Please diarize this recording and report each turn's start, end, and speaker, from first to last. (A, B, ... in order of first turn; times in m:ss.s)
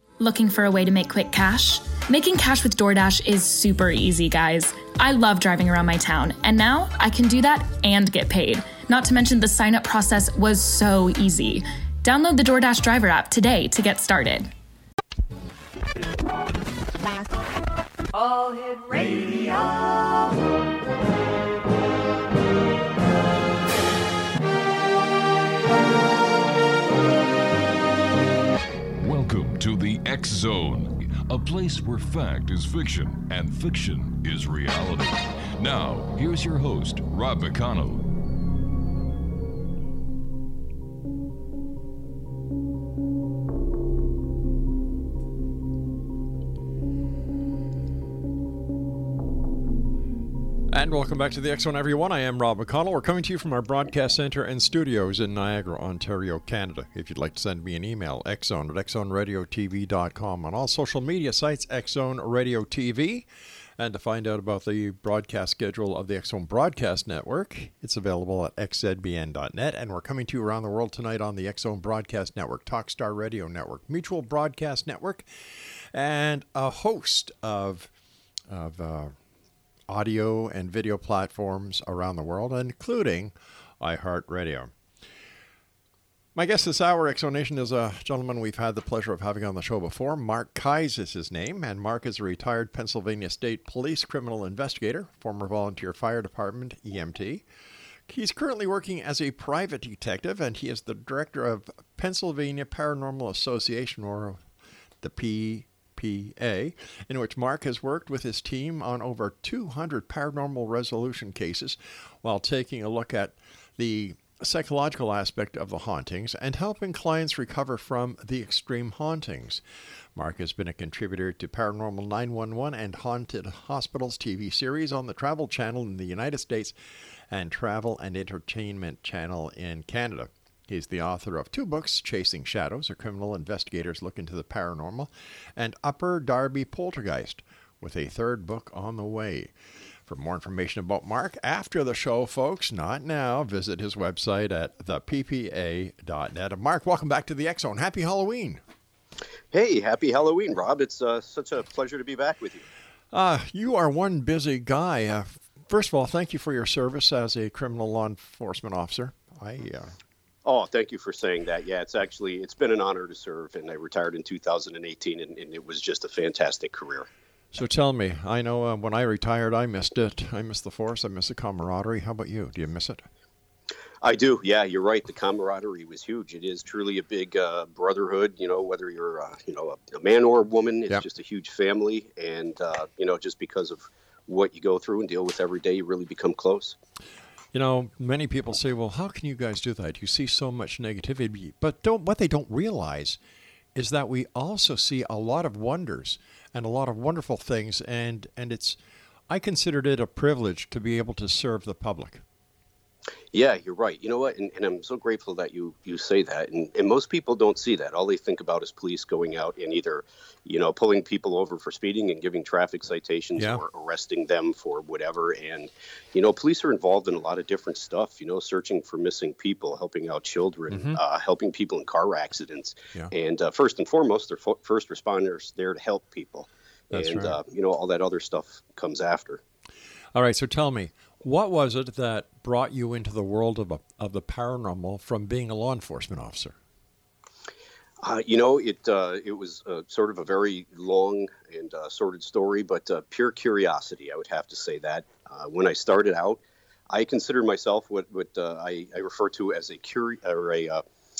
0:00.2-0:14.5 A
0:29.0-0:38.0 B
0:50.7-1:03.3 C
1:03.8-1:15.3 C
1:15.9-1:17.9 C
1:18.5-1:19.1 C
1:19.9-1:24.7 C
1:26.3-1:37.4 C
1:38.1-1:44.4 C
1:45.0-1:59.6 C
2:00.1-2:06.7 C
2:07.3-2:19.5 C
2:20.0-2:28.6 C
2:29.5-2:32.7 D
2:33.1-2:40.0 C
2:40.4-2:47.1 D
2:47.5-2:53.0 C
2:54.0-3:06.8 D
3:07.5-3:13.2 C
3:13.7-3:18.8 C
3:19.3-3:22.2 C
3:23.3-3:49.4 D
3:33.4-3:33.6 C
3:40.7-3:41.0 C
3:46.9-3:47.4 C
3:50.1-3:56.6 C
3:58.0-4:10.8 D